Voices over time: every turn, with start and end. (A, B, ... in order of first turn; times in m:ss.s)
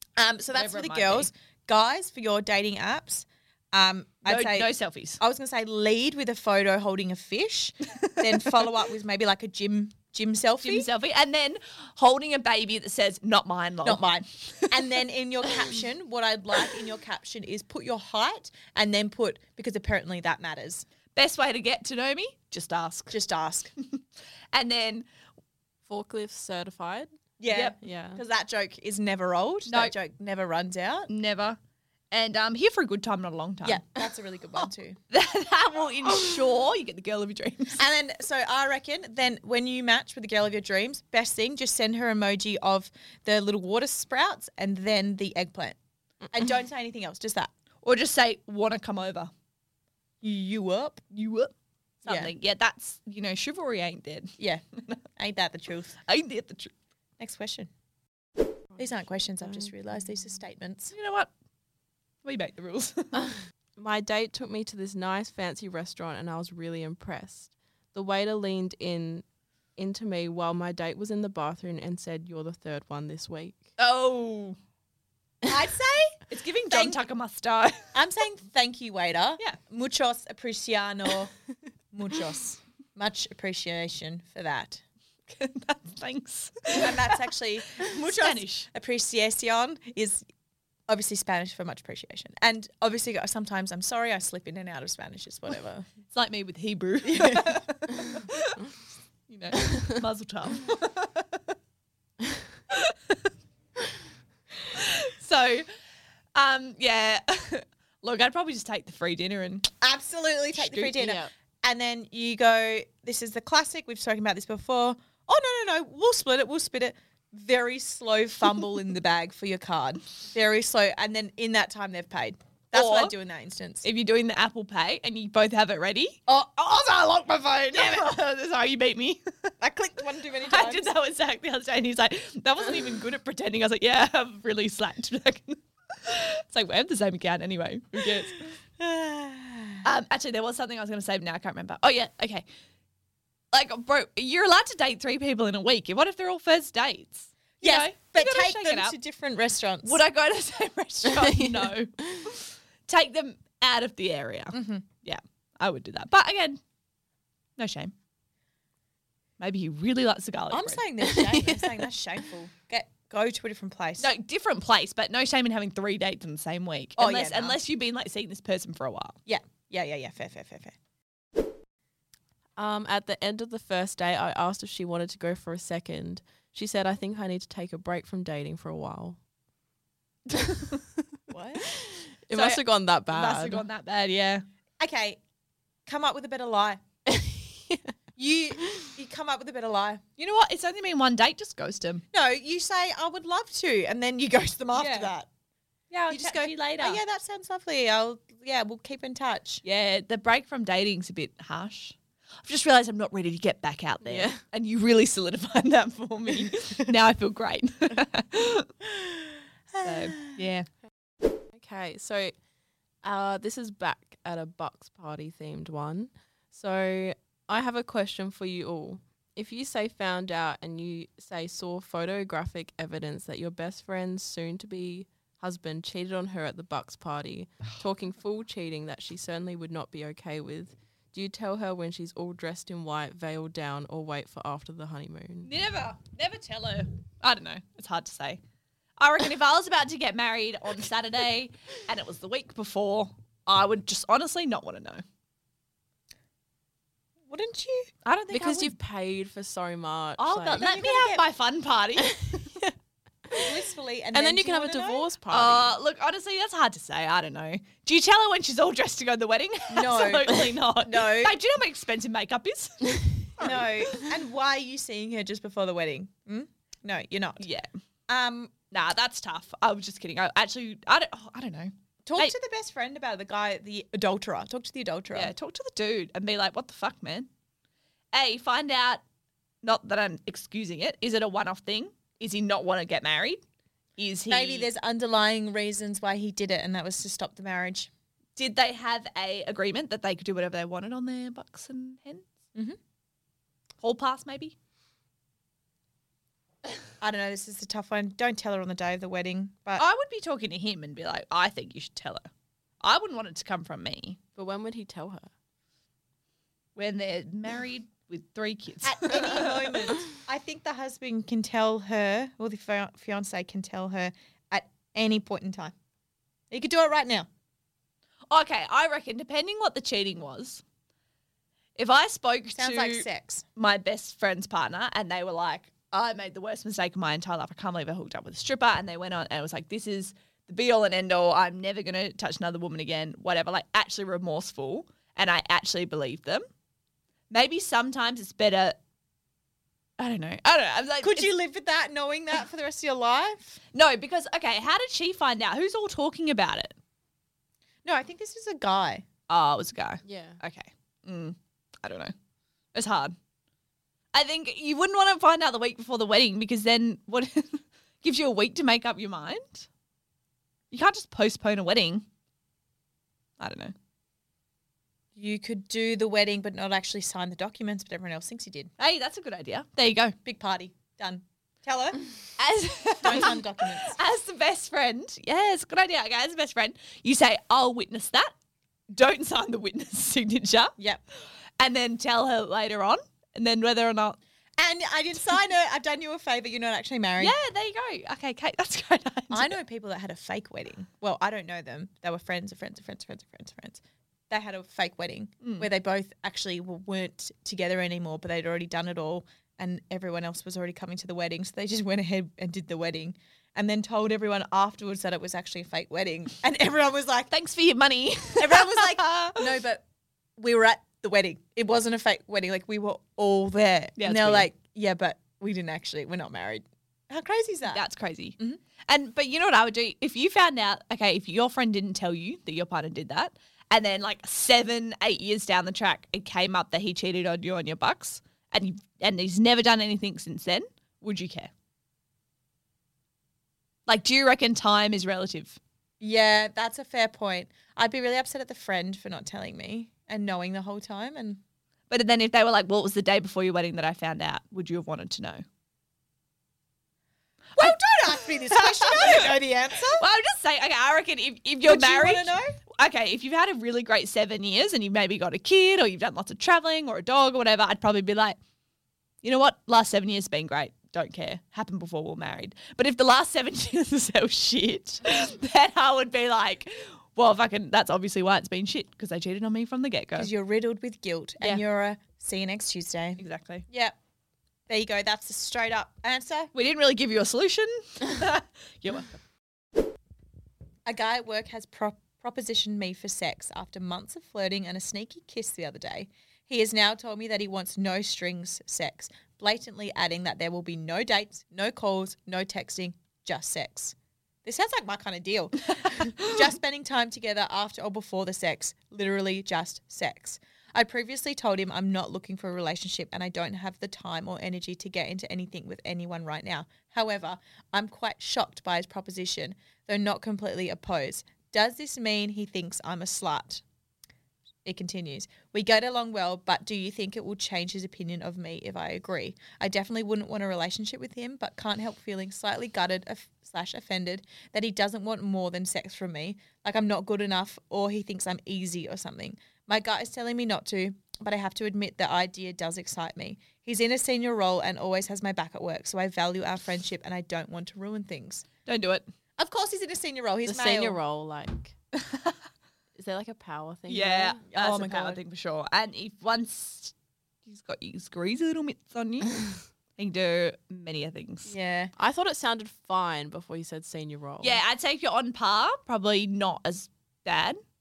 0:00.2-0:10.9 A
0:00.5-0:01.3 B
0:04.3-0:05.2 B
0:08.0-0:08.6 B
0:10.6-0:15.0 B
0:13.8-0:20.9 A
0:21.2-0:23.2 B
0:23.1-0:23.7 A
0:23.8-0:25.1 B
0:25.9-0:27.1 C
0:27.4-0:31.1 A
0:27.8-0:28.2 C
0:29.7-0:29.9 B
0:31.1-0:31.6 B
0:32.1-0:33.8 B
0:33.6-0:35.0 A
0:35.1-0:37.8 B
0:37.8-0:45.8 A
0:46.3-0:47.5 A
0:47.8-0:49.3 B
0:50.2-0:51.0 A
0:51.1-0:51.5 B
0:52.0-0:55.0 B
0:52.0-0:52.3 A
0:55.2-0:56.0 A
0:56.1-0:56.8 B
0:57.2-0:57.7 A
0:58.8-1:00.9 A
1:00.9-1:01.3 B
1:02.2-1:03.4 B
1:03.8-1:09.2 C
1:09.8-1:13.7 C
1:13.8-1:14.6 B
1:15.4-1:17.0 A
1:16.3-1:17.9 B
1:17.9-1:21.3 A
1:21.9-1:24.8 A
1:25.3-1:28.7 B
1:26.7-1:30.2 A
1:30.9-1:35.9 A
1:36.1-1:38.6 B
1:37.1-1:37.5 A
1:39.3-1:41.4 B
1:42.7-1:43.3 B
1:44.7-1:45.7 B
1:46.4-1:49.7 B
1:49.8-2:03.8 A
1:50.6-1:50.9 B
1:51.0-1:51.3 C
2:02.7-2:03.1 B
2:03.8-2:06.2 B
2:06.3-2:08.0 A
2:07.7-2:09.5 B
2:09.6-2:10.9 A
2:10.4-2:18.5 B
2:18.0-2:19.8 A
2:19.8-2:22.4 B
2:23.5-2:29.0 B
2:27.6-2:30.0 A
2:29.8-2:36.6 B
2:31.1-2:32.3 C
2:34.5-2:34.9 A
2:37.6-2:37.9 B
2:39.4-2:40.8 B
2:40.5-2:44.1 A
2:41.1-2:41.8 C
2:44.0-2:49.2 B
2:47.0-2:47.6 A
2:49.3-2:50.8 A
2:52.6-2:59.2 C
3:00.4-3:00.7 C
3:00.5-3:00.8 B
3:01.3-3:01.8 A
3:01.7-3:03.6 C
3:02.3-3:04.4 B
3:04.8-3:05.2 A
3:05.9-3:06.8 A
3:07.1-3:07.9 C
3:08.2-3:10.0 A
3:08.6-3:08.9 C
3:10.2-3:12.0 B
3:12.1-3:15.3 A
3:14.7-3:15.1 B
3:15.9-3:17.0 B
3:16.1-3:19.6 A
3:19.6-3:28.7 B
3:24.0-3:24.4 C
3:28.8-3:30.4 A
3:29.8-3:30.7 B
3:31.6-3:32.3 C
3:33.0-3:55.5 C
3:55.4-3:58.4 B
3:59.0-4:05.0 B
4:07.3-4:07.9 A
4:08.0-4:08.8 B
4:08.3-4:10.7 C
4:10.2-4:12.4 B
4:10.6-4:11.2 A
4:12.1-4:12.7 C
4:13.3-4:15.0 A
4:14.1-4:15.7 C
4:15.3-4:24.1 B
4:19.7-4:21.4 A
4:23.4-4:27.5 A
4:27.4-4:27.7 B
4:28.1-4:28.5 A
4:28.7-4:32.3 B
4:32.1-4:35.3 A
4:35.1-4:37.3 B
4:38.1-4:39.0 B
4:39.6-4:43.4 B
4:44.0-4:44.7 B
4:44.3-4:47.9 A
4:48.4-4:52.3 B
4:53.8-4:54.6 B
4:57.0-4:59.8 A
4:59.8-5:02.3 B
5:02.8-5:04.2 B
5:04.4-5:05.3 C
5:06.8-5:09.9 B
5:08.8-5:15.8 A
5:16.5-5:17.3 A
5:18.3-5:20.6 B
5:21.8-5:36.4 B
5:22.5-5:23.4 A
5:37.3-5:38.8 B
5:40.0-5:41.3 B
5:41.0-5:43.6 A
5:43.7-5:46.8 B
5:47.8-5:49.1 A
5:49.3-5:52.1 B
5:50.0-5:50.4 C
5:52.7-5:53.2 B
5:54.1-5:59.7 B
6:00.7-6:02.0 B
6:03.4-6:03.7 B
6:05.2-6:08.7 A
6:08.8-6:10.2 B
6:10.2-6:12.0 A
6:12.4-6:18.3 B
6:13.0-6:14.0 A
6:18.9-6:20.8 B
6:21.6-6:24.2 B
6:24.6-6:27.4 A
6:27.2-6:29.6 B
6:29.3-6:47.3 A
6:35.4-6:35.7 B
6:47.3-6:49.5 B
6:48.4-6:49.9 A
6:50.4-6:57.8 A
6:54.0-6:54.5 B
6:57.7-6:58.4 B
6:58.9-7:11.5 B
7:13.9-7:15.6 B
7:16.0-7:21.4 A
7:21.9-7:25.4 B
7:27.6-7:29.4 B
7:27.6-7:30.0 A
7:29.9-7:38.4 B
7:31.6-7:32.5 A
7:39.2-7:50.3 B
7:50.2-7:54.0 A
7:53.2-7:53.7 B
7:54.7-7:56.5 A
7:56.5-7:59.2 B
8:00.8-8:33.6 A
8:34.6-8:58.5 A
8:58.6-8:59.1 B
8:59.4-9:01.0 A
9:00.5-9:01.8 C
9:02.0-9:02.4 B
9:03.0-9:04.4 C
9:03.9-9:06.9 B
9:04.5-9:05.2 A
9:07.5-9:11.5 B
9:11.5-9:11.9 A
9:12.0-9:14.6 C
9:14.4-9:17.6 B